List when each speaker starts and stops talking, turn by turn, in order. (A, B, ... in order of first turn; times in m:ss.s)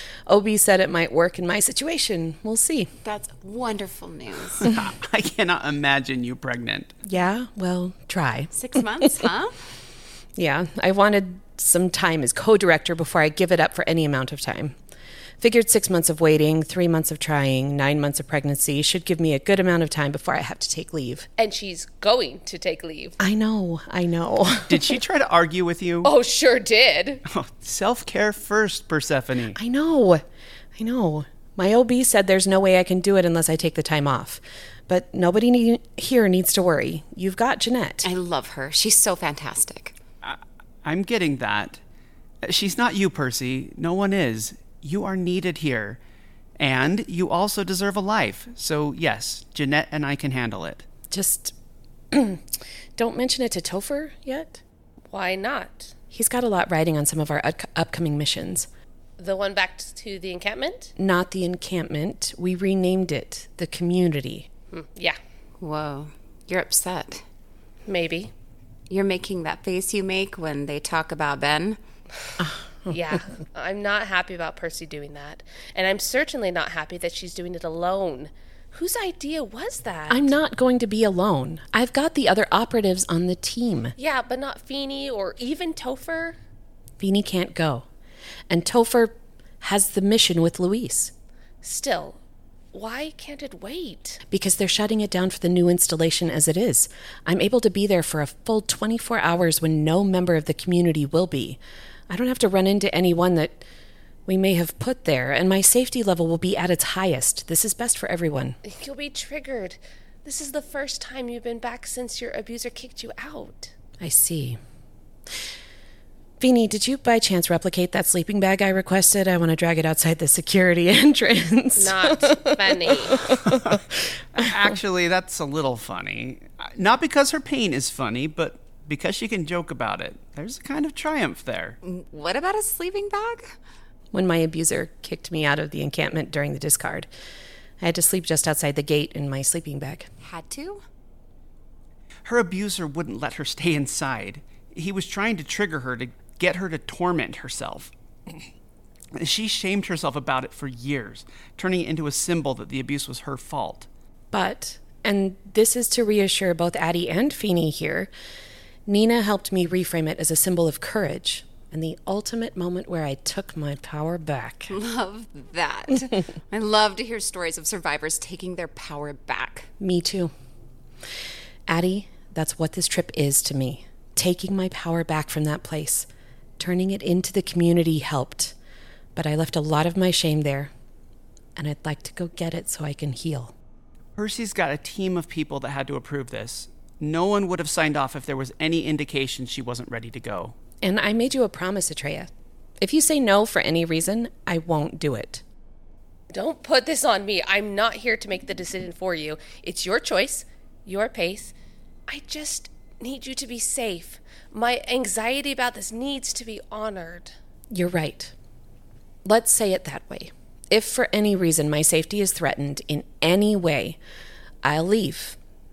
0:00.3-0:02.9 A
0:03.0-0:04.7 B
0:04.6-0:07.0 C
0:07.0-0:09.2 A
0:08.5-0:09.6 B
0:10.4-0:14.7 A
0:15.4-0:21.3 A
0:21.4-0:23.2 D
0:23.2-0:25.0 A
0:24.7-0:26.1 C
0:26.0-0:27.2 D
0:27.3-0:29.6 C
0:29.5-0:38.1 A
0:38.0-0:40.0 B
0:40.2-0:41.8 C
0:42.4-0:46.0 C
0:46.6-0:50.8 C
0:51.1-0:51.5 A
0:52.1-0:54.6 A
0:55.1-0:55.9 D
0:56.1-0:58.7 A
0:59.2-1:00.9 D
1:01.0-1:04.5 A
1:04.7-1:05.2 D
1:05.6-1:07.2 B
1:07.9-1:08.3 D
1:08.9-1:11.8 B
1:12.4-1:13.2 A
1:12.9-1:20.3 D
1:20.1-1:23.9 A
1:24.0-1:26.4 D
1:27.0-1:27.8 A
1:28.5-1:31.1 A
1:31.6-1:32.2 D
1:32.7-1:34.2 D
1:34.3-1:43.6 A
1:44.3-1:48.6 A
1:48.6-1:53.7 D
1:54.0-1:54.6 A
1:56.4-2:03.8 A
2:01.8-2:03.2 D
2:03.4-2:03.8 C
2:04.4-2:11.8 C
2:04.4-2:04.6 A
2:11.8-2:13.6 B
2:14.1-2:17.1 A
2:17.8-2:20.1 A
2:20.2-2:20.8 B
2:22.2-2:28.4 C
2:29.1-2:33.9 C
2:34.3-2:38.1 A
2:38.8-2:44.7 A
2:44.7-2:49.7 B
2:49.8-2:50.3 A
2:51.7-2:56.1 A
2:56.6-2:58.5 A
2:59.1-3:00.7 A
3:01.6-3:03.5 A
3:04.2-3:10.5 C
3:10.8-3:15.4 A
3:16.3-3:21.5 D
3:22.1-3:27.3 D
3:27.7-3:28.3 A
3:29.2-3:34.0 A
3:34.6-3:35.4 A